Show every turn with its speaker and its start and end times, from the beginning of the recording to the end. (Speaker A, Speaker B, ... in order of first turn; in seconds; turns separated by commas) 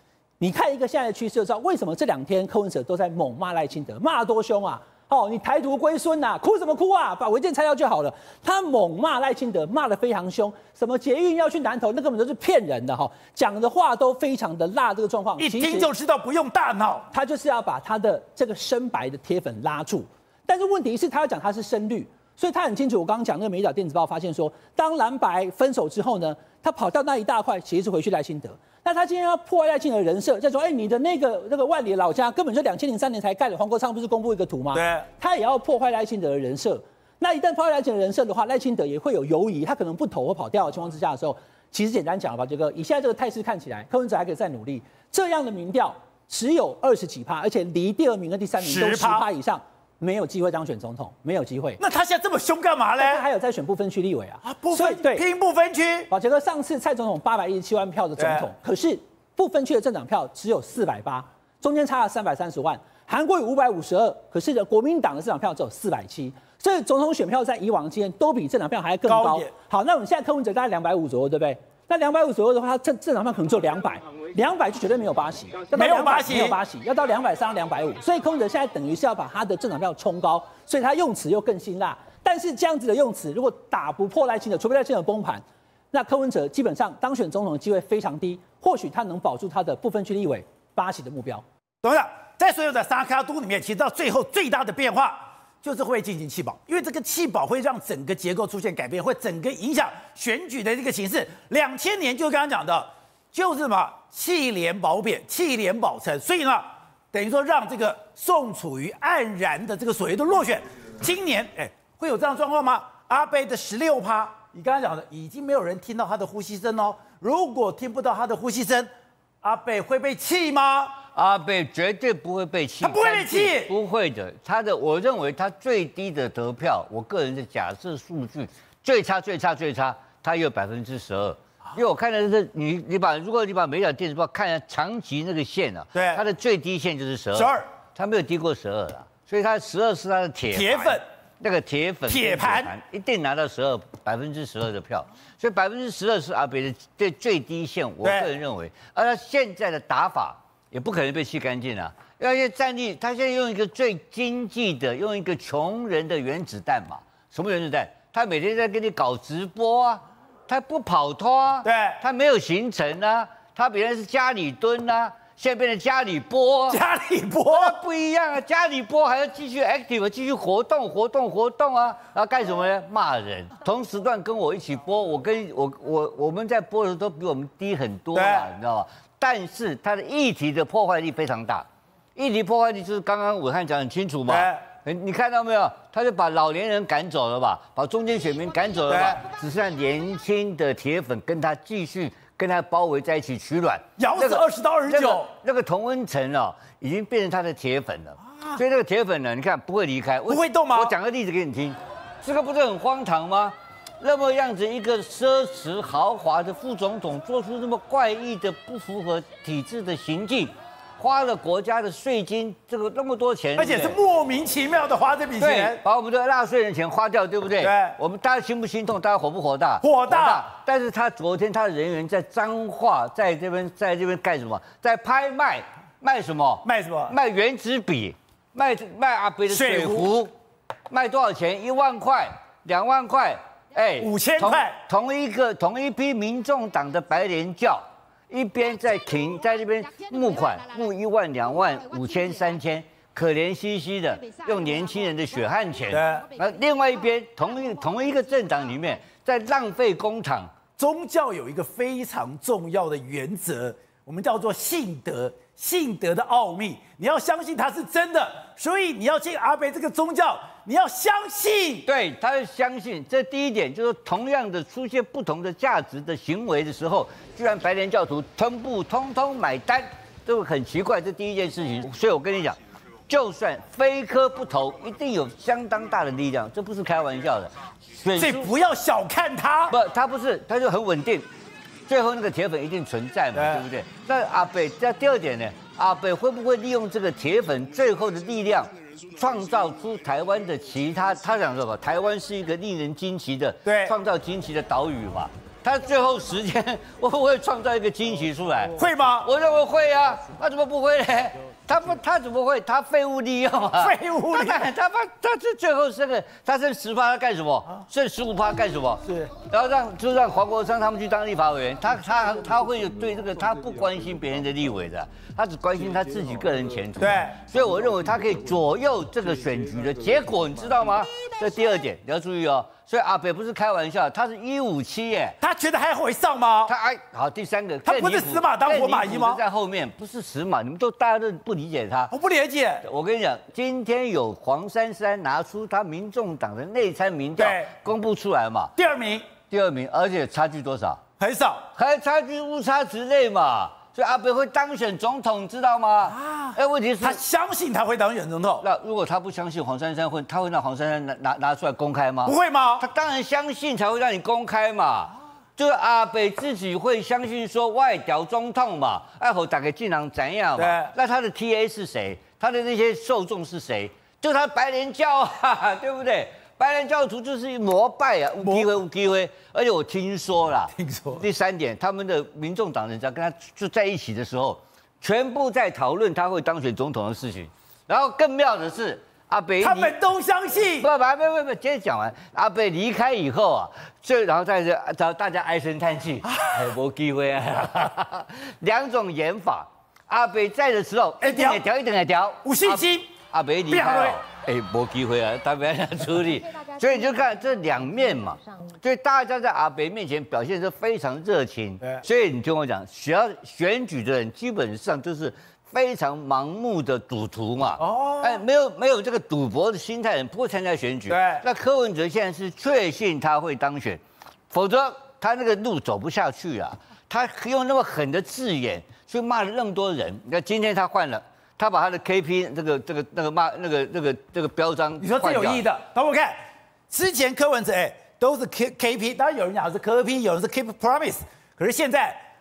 Speaker A: 0.4-15.9, Speaker B: 15.4-17.1, Speaker A: 17.1-51.8, Speaker B: 34.7-35.1, Speaker B: 48.6-49.3, Speaker B: 51.8-53.2, Speaker A: 53.0-55.3, Speaker B: 54.4-56.1, Speaker A: 56.1-91.4, Speaker B: 58.2-58.5, Speaker B: 69.0-69.5, Speaker B: 75.7-76.6, Speaker B: 91.8-118.9, Speaker B: 119.4-121.0, Speaker C: 121.2-166.8, Speaker B: 122.8-123.7, Speaker B: 135.9-136.2, Speaker B: 137.3-137.7, Speaker B: 140.5-141.0, Speaker B: 142.1-142.7, Speaker B: 148.0-148.3, Speaker B: 161.6-162.0, Speaker B: 166.7-167.8, Speaker C: 167.5-214.0, Speaker B: 178.1-178.5, Speaker B: 184.3-184.6, Speaker B: 188.9-189.2, Speaker B: 194.0-195.3, Speaker B: 200.3-200.9, Speaker B: 213.6-215.8, Speaker C: 215.4-230.3, Speaker B: 217.6-218.0, Speaker B: 219.8-220.5, Speaker B: 226.6-227.2, Speaker B: 229.5-230.1, Speaker C: 230.9-250.5, Speaker B: 234.0-234.8, Speaker B: 245.9-246.3, Speaker B: 250.8-261.9, Speaker C: 261.9-272.6, Speaker C: 273.1-278.5, Speaker B: 278.2-279.8, Speaker C: 279.7-281.3, Speaker C: 281.9-325.4, Speaker B: 283.3-283.6, Speaker B: 293.6-293.9, Speaker B: 298.7-299.3, Speaker B: 303.8-304.7, Speaker B: 309.0-309.3, Speaker B: 317.0-317.4, Speaker B: 325.4-326.7, Speaker C: 326.7-332.1, Speaker B: 327.9-329.4, Speaker B: 332.1-332.9, Speaker C: 332.9-338.7, Speaker B: 337.4-337.7, Speaker B: 338.8-339.3, Speaker C: 339.5-341.0, Speaker B: 341.2-341.7, Speaker C: 341.8-347.2, Speaker B: 346.1-348.6, Speaker C: 348.6-379.9, Speaker B: 352.2-352.9, Speaker B: 360.6-360.9, Speaker B: 368.4-368.7, Speaker B: 370.7-371.3, Speaker B: 379.6-380.9, Speaker C: 380.8-425.6, Speaker B: 386.2-386.8, Speaker B: 391.2-391.6, Speaker B: 392.4-393.1, Speaker B: 393.7-394.2, Speaker B: 407.8-408.4, Speaker B: 411.1-411.4, Speaker B: 425.0-426.3, Speaker B: 426.9-432.2